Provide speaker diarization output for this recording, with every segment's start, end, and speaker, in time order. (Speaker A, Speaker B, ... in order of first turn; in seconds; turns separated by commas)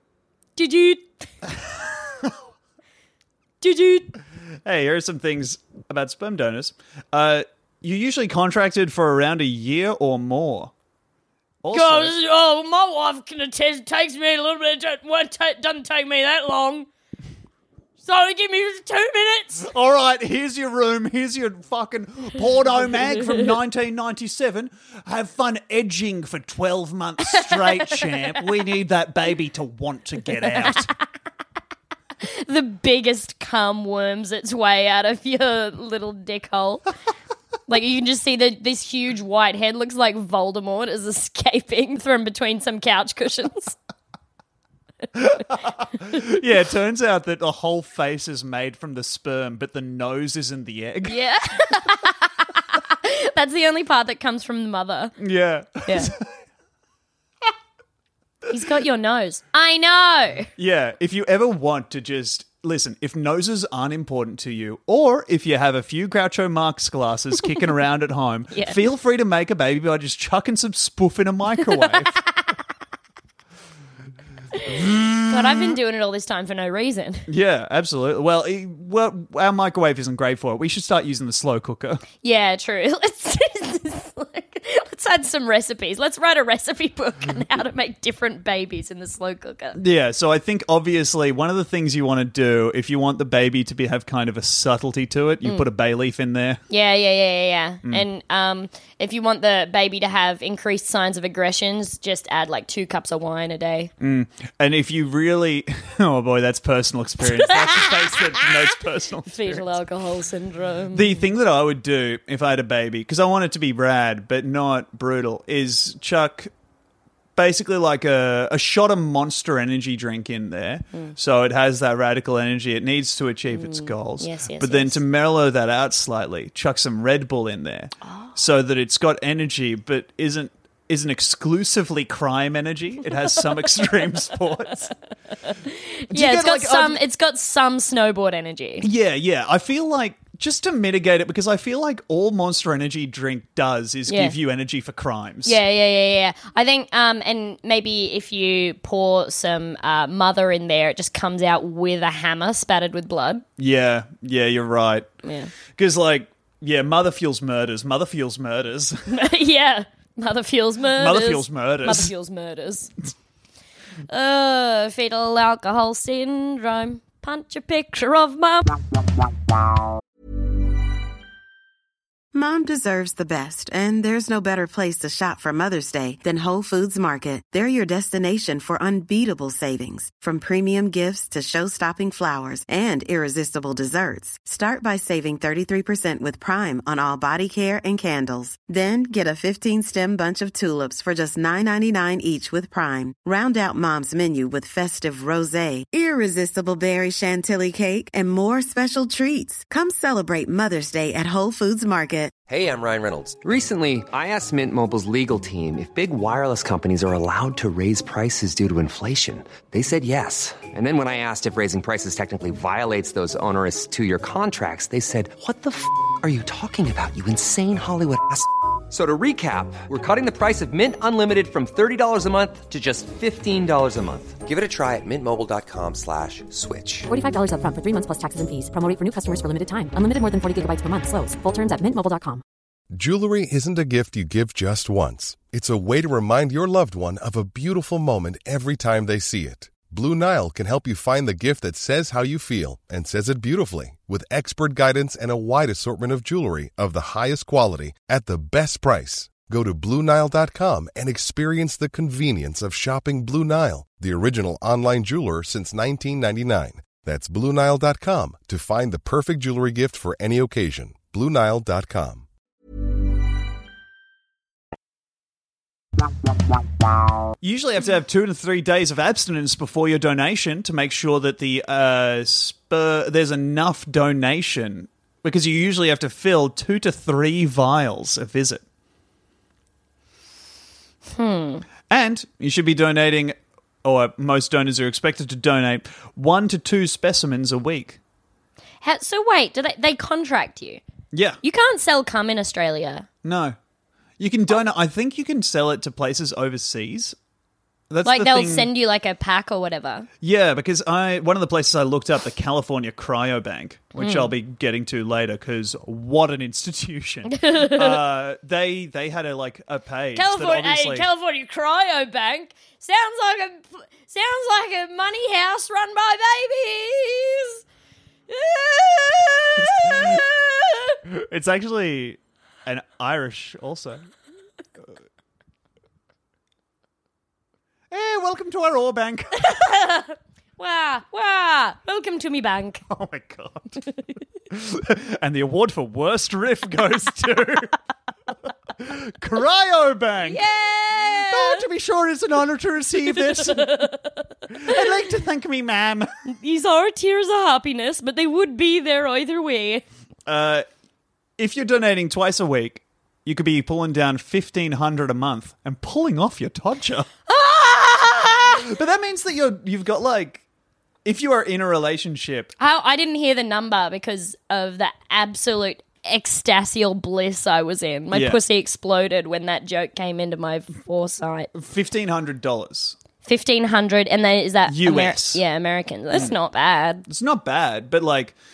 Speaker A: 0.6-1.2, Speaker B: 1.5-2.3, Speaker A: 3.6-4.1, Speaker B: 4.7-10.7, Speaker B: 11.6-12.2, Speaker A: 11.7-16.9, Speaker A: 18.0-19.7, Speaker B: 19.6-30.9, Speaker A: 27.2-28.3, Speaker A: 30.4-30.8, Speaker A: 32.2-36.9, Speaker A: 37.7-43.8, Speaker B: 45.1-51.2, Speaker A: 51.1-55.2, Speaker B: 55.2-56.2, Speaker A: 55.9-56.1, Speaker A: 58.5-60.5, Speaker B: 60.6-72.2, Speaker A: 68.5-68.8, Speaker A: 74.5-77.3, Speaker B: 74.7-75.6, Speaker B: 77.3-82.0, Speaker A: 82.2-89.8, Speaker B: 89.8-96.6, Speaker A: 96.7-103.9, Speaker B: 104.0-109.8, Speaker A: 107.2-108.5, Speaker A: 109.3-111.2, Speaker B: 110.9-116.5, Speaker B: 117.4-134.9, Speaker A: 123.5-125.0, Speaker A: 128.0-128.3, Speaker A: 135.4-138.9, Speaker B: 136.1-137.0, Speaker B: 138.8-145.6, Speaker A: 144.1-144.3, Speaker A: 145.5-153.4, Speaker B: 153.6-155.1, Speaker A: 155.2-155.5, Speaker B: 155.7-159.1, Speaker A: 159.1-162.9, Speaker B: 160.9-162.1, Speaker A: 164.1-168.8, Speaker C: 172.3-202.4, Speaker D: 202.5-227.1, Speaker E: 227.1-232.4, Speaker F: 232.9-262.3, Speaker B: 267.4-278.6, Speaker A: 281.1-281.7, Speaker B: 281.9-288.0, Speaker A: 288.8-290.8, Speaker B: 291.1-291.4, Speaker A: 291.4-293.1, Speaker B: 293.2-293.6, Speaker B: 294.2-297.1, Speaker B: 297.9-298.7, Speaker A: 298.1-300.1, Speaker B: 300.2-311.1, Speaker A: 304.0-304.3, Speaker A: 307.3-308.0, Speaker A: 310.2-317.6, Speaker A: 318.3-321.0, Speaker B: 319.6-320.2, Speaker B: 321.1-324.1, Speaker B: 327.9-329.5, Speaker A: 329.4-332.8, Speaker B: 332.9-333.8, Speaker B: 334.5-337.7, Speaker B: 338.8-340.4, Speaker A: 340.2-341.6, Speaker B: 341.0-343.9, Speaker A: 343.1-344.8, Speaker B: 344.5-346.1, Speaker A: 346.3-349.8, Speaker B: 350.3-350.6, Speaker B: 351.4-357.1, Speaker A: 357.3-358.6, Speaker B: 358.6-360.4, Speaker B: 361.1-362.5, Speaker A: 362.6-371.5, Speaker B: 368.1-368.4, Speaker B: 371.5-373.0, Speaker A: 373.2-377.1, Speaker B: 374.7-375.4, Speaker B: 377.1-378.4